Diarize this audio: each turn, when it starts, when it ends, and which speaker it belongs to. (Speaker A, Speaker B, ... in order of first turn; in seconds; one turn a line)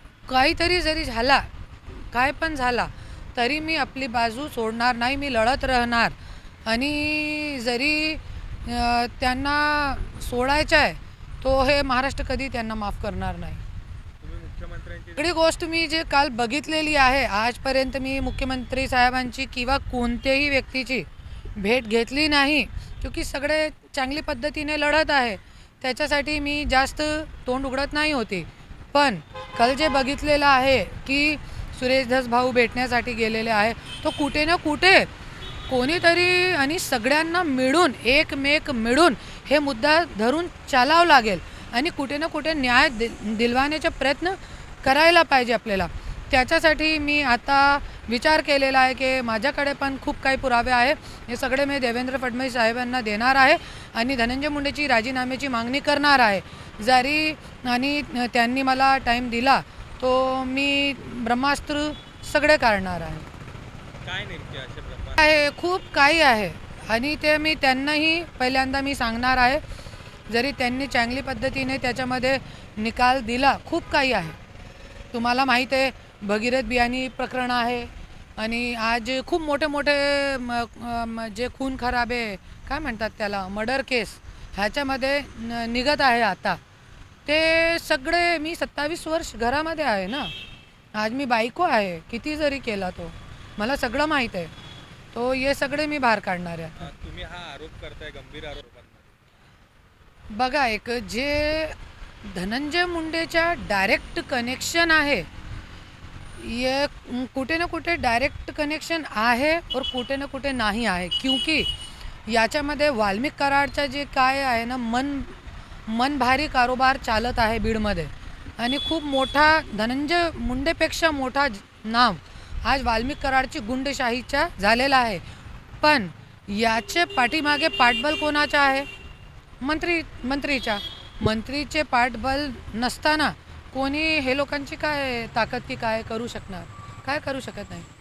Speaker A: 0.3-6.2
Speaker A: 6.7-13.6
Speaker B: 14.2-15.3
Speaker A: 15.2-35.1
Speaker A: 35.7-63.3
Speaker B: 64.0-65.3
Speaker A: 65.2-69.6
Speaker A: 70.3-74.4
Speaker A: 75.1-86.6
Speaker A: 87.2-90.3
Speaker A: 90.9-94.5
Speaker A: 95.1-96.9
Speaker B: 96.8-99.1
Speaker A: 100.3-105.3
Speaker A: 106.3-111.7
Speaker A: 112.3-125.2
Speaker A: 125.8-128.9
Speaker A: 129.6-137.9